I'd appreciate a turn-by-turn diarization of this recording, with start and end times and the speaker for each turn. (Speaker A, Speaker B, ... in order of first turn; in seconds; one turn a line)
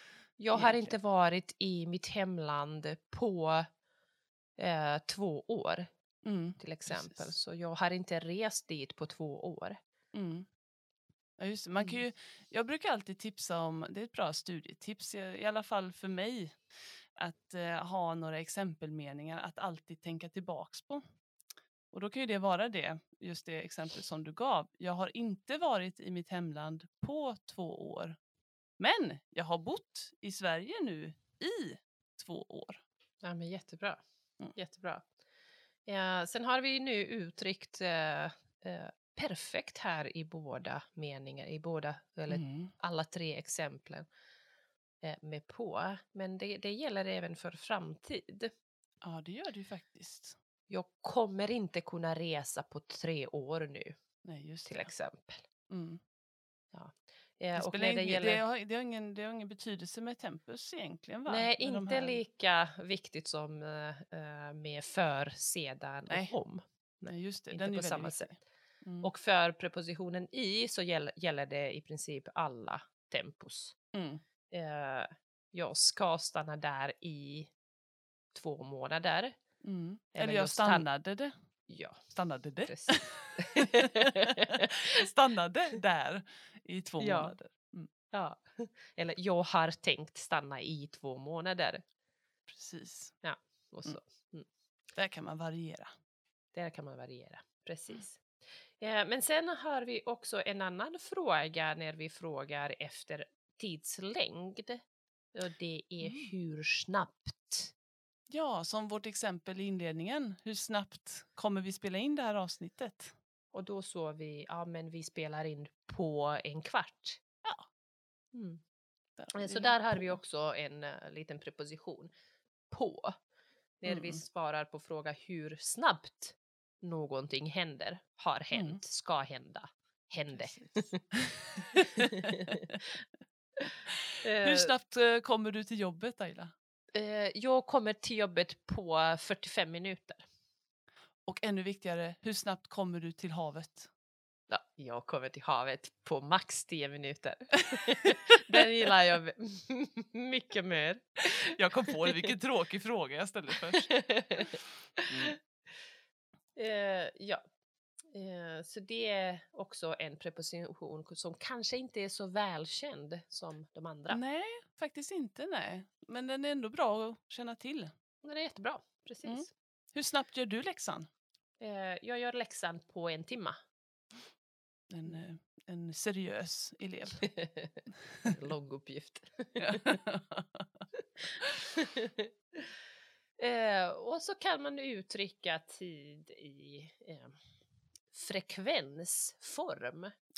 Speaker A: 0.4-3.7
Speaker B: 0.5-0.9
Speaker A: 4.6-5.9
Speaker B: 6.2-7.3
Speaker A: 6.6-9.8
Speaker B: 10.1-10.4
Speaker B: 11.4-16.6
Speaker B: 17.2-21.0
Speaker B: 21.9-28.2
Speaker B: 28.8-32.8
Speaker A: 33.2-34.0
Speaker A: 34.5-35.0
Speaker A: 35.9-44.0
Speaker B: 42.3-42.7
Speaker A: 45.0-48.5
Speaker B: 49.0-50.4
Speaker A: 50.7-54.0
Speaker B: 54.2-54.9
Speaker A: 54.6-55.5
Speaker B: 55.7-56.0
Speaker A: 56.7-58.4
Speaker B: 57.5-62.2
Speaker A: 61.3-68.4
Speaker B: 66.1-66.3
Speaker B: 67.1-69.1
Speaker A: 69.0-73.7
Speaker B: 73.9-74.2
Speaker A: 74.5-77.5
Speaker A: 78.3-79.3
Speaker B: 79.6-81.3
Speaker A: 80.2-80.9
Speaker A: 81.7-82.0
Speaker B: 82.1-87.9
Speaker A: 82.6-84.8
Speaker A: 87.0-87.3
Speaker A: 88.1-91.8
Speaker B: 92.5-93.1
Speaker A: 93.2-94.5
Speaker B: 95.0-95.9
Speaker A: 96.5-104.8
Speaker A: 105.3-107.7
Speaker B: 106.0-106.3
Speaker B: 108.3-113.1
Speaker A: 113.5-117.2
Speaker A: 118.3-118.6
Speaker B: 119.2-120.2
Speaker A: 119.3-122.1
Speaker A: 122.7-123.1
Speaker A: 123.8-131.0
Speaker B: 123.9-124.2
Speaker B: 128.5-128.8
Speaker B: 130.3-131.1
Speaker A: 131.7-132.8
Speaker A: 133.6-134.7
Speaker B: 134.4-136.5
Speaker A: 136.9-140.2
Speaker B: 141.2-143.9
Speaker A: 144.5-152.3
Speaker B: 151.5-154.4
Speaker A: 153.6-155.3
Speaker A: 156.6-157.4
Speaker A: 158.1-164.2
Speaker B: 164.1-167.9
Speaker A: 168.2-169.5
Speaker B: 169.2-171.1
Speaker A: 171.6-173.6
Speaker B: 174.9-177.3
Speaker A: 177.2-180.0
Speaker B: 179.6-180.6
Speaker A: 181.6-182.7
Speaker A: 183.4-187.4
Speaker A: 188.1-190.1